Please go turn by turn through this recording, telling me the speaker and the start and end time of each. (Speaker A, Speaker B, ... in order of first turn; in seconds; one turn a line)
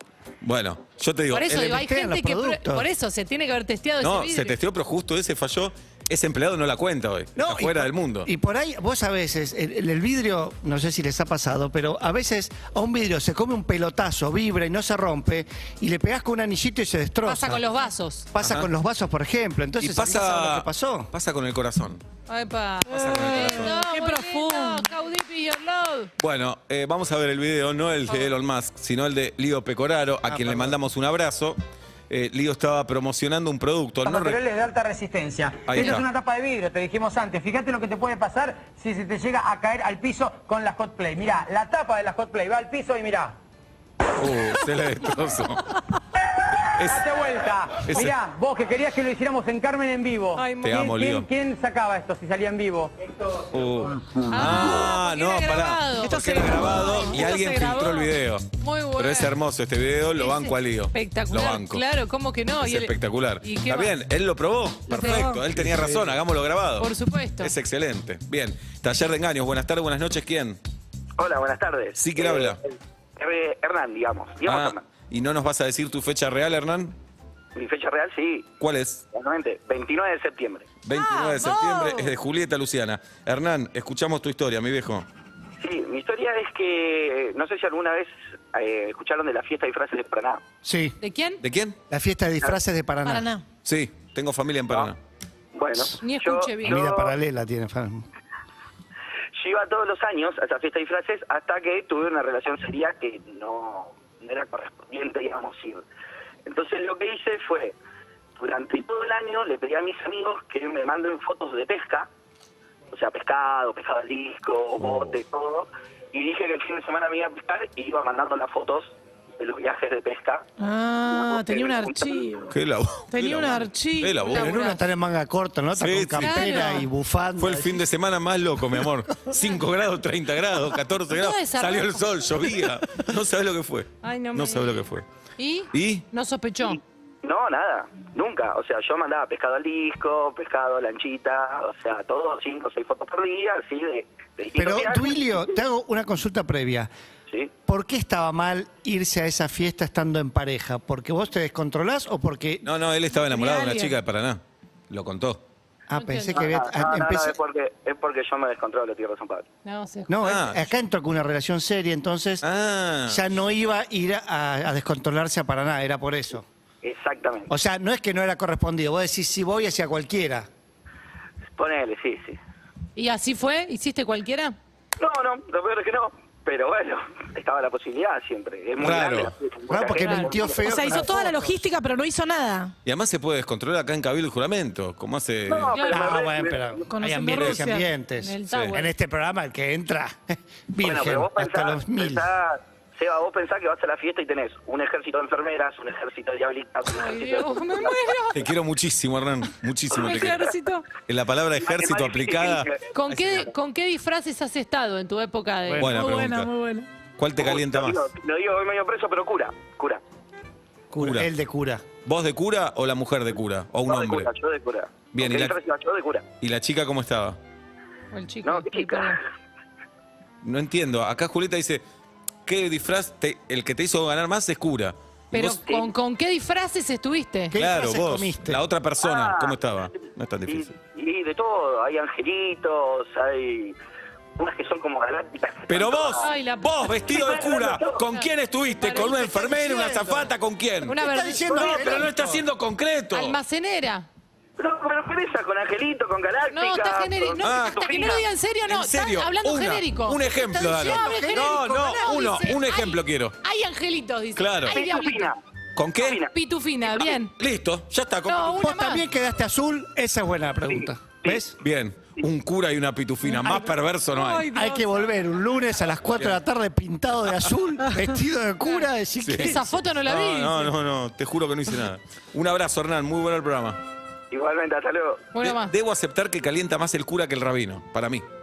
Speaker A: 0.4-1.7
Speaker B: 1.3-4.5
Speaker C: 1.4-2.9
Speaker A: 4.0-8.3
Speaker C: 7.4-17.6
Speaker B: 17.2-18.3
Speaker C: 18.3-21.1
Speaker A: 18.4-18.7
Speaker A: 19.8-22.0
Speaker B: 22.3-26.1
Speaker A: 22.9-23.7
Speaker D: 22.9-24.9
Speaker A: 26.2-34.4
Speaker C: 30.3-30.7
Speaker E: 34.0-43.4
Speaker A: 35.7-36.0
Speaker A: 44.2-45.7
Speaker A: 46.8-47.1
Speaker E: 46.8-53.9
Speaker A: 47.9-48.2
Speaker B: 50.4-50.9
Speaker A: 50.6-51.3
Speaker A: 53.5-61.8
Speaker B: 54.3-59.3
Speaker D: 56.0-57.1
Speaker B: 60.2-63.9
Speaker A: 62.6-70.6
Speaker B: 64.9-65.3
Speaker D: 64.9-65.4
Speaker B: 66.8-67.5
Speaker F: 71.2-74.9
Speaker A: 72.0-72.6
Speaker A: 74.4-77.0
Speaker F: 77.5-78.5
Speaker A: 78.6-79.1
Speaker F: 79.1-80.8
Speaker A: 80.8-85.1
Speaker B: 80.9-82.1
Speaker F: 85.6-90.4
Speaker C: 90.6-91.0
Speaker B: 91.0-91.4
Speaker A: 91.4-91.8
Speaker C: 91.9-93.3
Speaker D: 93.0-93.4
Speaker A: 93.7-95.0
Speaker F: 95.5-97.2
Speaker B: 96.0-96.8
Speaker C: 96.6-98.1
Speaker F: 99.4-105.8
Speaker F: 106.5-107.8
Speaker F: 108.4-112.1
Speaker F: 112.9-120.5
Speaker A: 114.8-115.1
Speaker D: 120.6-122.5
Speaker F: 121.1-122.4
Speaker A: 122.5-124.5
Speaker D: 123.1-124.2
Speaker B: 124.2-124.8
Speaker C: 124.3-127.8
Speaker A: 125.8-126.5
Speaker B: 126.2-126.9
Speaker A: 127.4-135.1
Speaker B: 131.1-132.0
Speaker B: 134.0-134.8
Speaker B: 135.4-136.8
Speaker A: 135.7-136.1
Speaker F: 136.6-145.4
Speaker C: 144.6-146.9
Speaker C: 147.7-152.7
Speaker A: 152.6-155.4
Speaker B: 153.4-153.8
Speaker C: 155.9-157.4
Speaker B: 155.9-156.5
Speaker F: 156.3-159.5
Speaker B: 159.7-160.2
Speaker C: 160.1-162.4
Speaker A: 160.2-160.6
Speaker A: 162.4-163.2
Speaker C: 163.1-166.4
Speaker F: 166.8-167.5
Speaker C: 167.5-170.5
Speaker F: 171.6-172.4
Speaker B: 173.0-174.6
Speaker F: 175.0-181.0
Speaker A: 178.8-179.3
Speaker C: 179.7-181.5
Speaker B: 180.0-180.4
Speaker D: 180.6-182.7
Speaker A: 182.8-185.8
Speaker F: 185.5-186.9
Speaker B: 185.7-186.2
Speaker C: 185.9-192.3
Speaker D: 186.9-187.9
Speaker A: 187.3-187.6
Speaker B: 188.2-188.9
Speaker F: 190.8-198.0
Speaker B: 196.9-198.5
Speaker A: 198.3-200.4
Speaker B: 199.9-200.9
Speaker F: 199.9-200.5
Speaker A: 201.1-203.4
Speaker F: 201.6-202.9
Speaker B: 202.9-205.8
Speaker C: 205.7-206.0
Speaker A: 205.8-206.5
Speaker D: 205.9-206.9
Speaker A: 207.2-208.0
Speaker F: 207.4-210.0
Speaker C: 210.9-211.8
Speaker A: 211.0-211.3
Speaker A: 212.1-214.3
Speaker F: 213.8-216.3
Speaker A: 215.1-215.6
Speaker A: 216.4-217.4
Speaker B: 218.1-219.2
Speaker F: 218.4-219.2
Speaker A: 220.4-221.8
Speaker A: 222.5-225.6
Speaker B: 225.3-227.6
Speaker C: 227.5-228.6
Speaker A: 227.6-230.7
Speaker F: 229.0-233.8
Speaker F: 234.4-236.3
Speaker A: 235.7-243.4
Speaker B: 236.2-236.9
Speaker F: 237.1-238.1
Speaker B: 238.1-240.3
Speaker B: 240.8-242.0
Speaker C: 241.0-242.4
Speaker B: 243.1-244.1
Speaker F: 244.6-248.2
Speaker B: 246.5-255.3
Speaker A: 247.4-247.9
Speaker A: 248.7-253.3
Speaker C: 250.6-251.6
Speaker A: 254.4-254.8
Speaker F: 254.7-255.4
Speaker A: 255.8-256.2
Speaker F: 255.9-256.3
Speaker B: 256.3-257.3
Speaker F: 256.9-257.1
Speaker A: 257.4-258.7
Speaker B: 258.3-259.1
Speaker C: 258.6-261.6
Speaker F: 260.7-261.4
Speaker A: 261.6-264.5
Speaker B: 264.1-264.9
Speaker C: 264.4-269.8
Speaker A: 269.2-273.8
Speaker B: 269.4-270.7
Speaker F: 274.3-275.3
Speaker B: 275.3-275.7
Speaker A: 275.4-278.2